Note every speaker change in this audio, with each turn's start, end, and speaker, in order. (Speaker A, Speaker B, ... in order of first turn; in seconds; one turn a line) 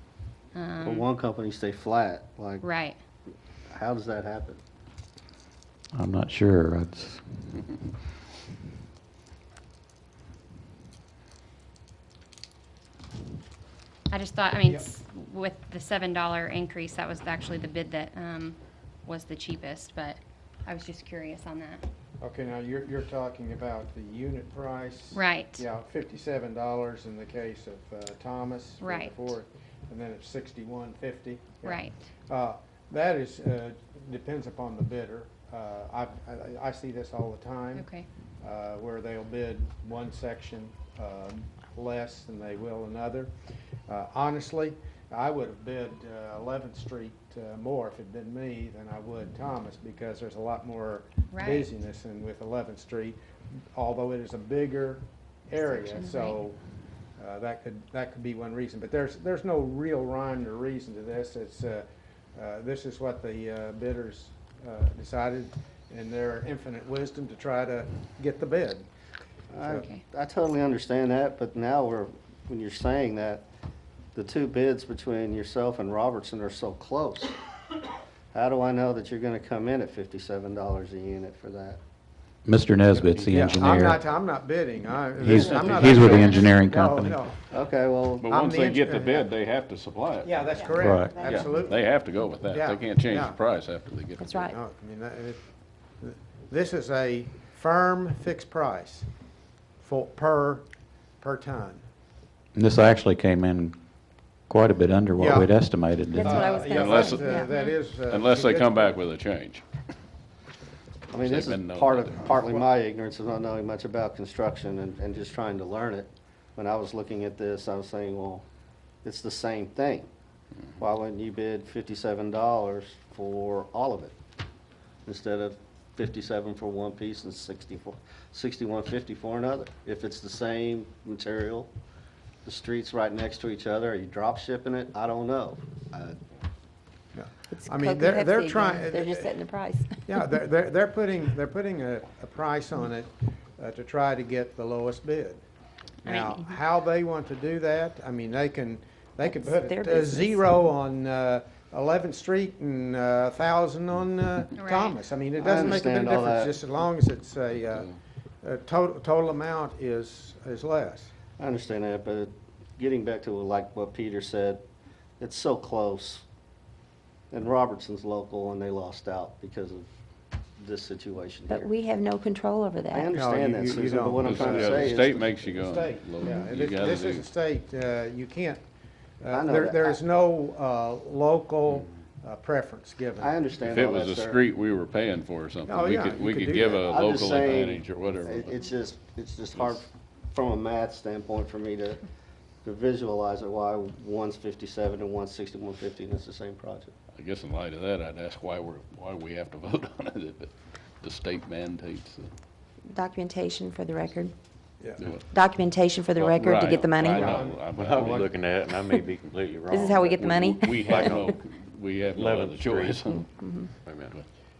Speaker A: 0.5-1.0
Speaker B: 0.8-2.7
Speaker A: 2.6-3.0
Speaker B: 3.7-4.6
Speaker C: 5.9-7.2
Speaker A: 14.1-21.8
Speaker D: 22.2-37.9
Speaker A: 25.1-25.6
Speaker A: 28.8-29.3
Speaker A: 31.6-31.9
Speaker A: 37.7-38.1
Speaker D: 38.4-43.3
Speaker D: 43.9-53.2
Speaker A: 51.3-51.7
Speaker D: 53.7-56.6
Speaker A: 55.6-56.4
Speaker D: 57.2-68.8
Speaker B: 69.5-73.5
Speaker A: 69.7-70.0
Speaker B: 74.1-77.3
Speaker B: 78.3-81.8
Speaker C: 82.4-84.0
Speaker E: 83.0-83.5
Speaker D: 83.1-87.4
Speaker C: 85.2-87.2
Speaker B: 87.5-88.3
Speaker E: 88.1-90.5
Speaker D: 88.3-89.3
Speaker D: 90.2-91.5
Speaker F: 90.6-91.7
Speaker C: 90.8-91.1
Speaker E: 91.2-94.5
Speaker D: 92.5-93.4
Speaker F: 94.2-94.5
Speaker D: 94.5-95.4
Speaker D: 96.0-99.1
Speaker D: 99.8-100.6
Speaker D: 101.2-101.8
Speaker C: 102.5-103.8
Speaker C: 104.5-107.3
Speaker D: 105.2-105.5
Speaker F: 106.1-107.5
Speaker D: 106.2-109.0
Speaker E: 106.6-109.7
Speaker B: 111.1-118.4
Speaker E: 111.1-112.5
Speaker B: 119.0-120.1
Speaker B: 120.8-124.1
Speaker B: 125.0-131.7
Speaker B: 132.4-136.2
Speaker D: 137.1-139.3
Speaker F: 137.5-140.0
Speaker D: 140.0-145.4
Speaker A: 146.0-146.4
Speaker D: 146.0-157.9
Speaker F: 149.2-150.4
Speaker A: 154.6-155.0
Speaker B: 155.4-156.5
Speaker D: 158.4-161.1
Speaker B: 161.4-164.6
Speaker B: 165.2-166.2
Speaker B: 167.3-169.8
Speaker B: 170.6-171.7
Speaker F: 171.5-173.0
Speaker B: 172.9-175.2
Speaker D: 173.1-178.6
Speaker E: 174.2-177.2
Speaker D: 179.2-183.3
Speaker B: 179.3-180.0
Speaker B: 183.2-184.4
Speaker E: 183.6-188.6
Speaker D: 185.7-186.8
Speaker B: 186.8-192.1
Speaker B: 192.6-196.9
Speaker E: 197.1-202.3
Speaker F: 202.9-204.3
Speaker D: 204.8-205.1
Speaker F: 205.4-207.4
Speaker E: 206.2-208.3
Speaker D: 207.1-208.3
Speaker G: 207.6-211.4
Speaker F: 209.7-211.0
Speaker C: 209.8-210.7
Speaker E: 210.6-213.3
Speaker G: 212.0-213.0
Speaker F: 213.0-213.8
Speaker G: 213.8-214.2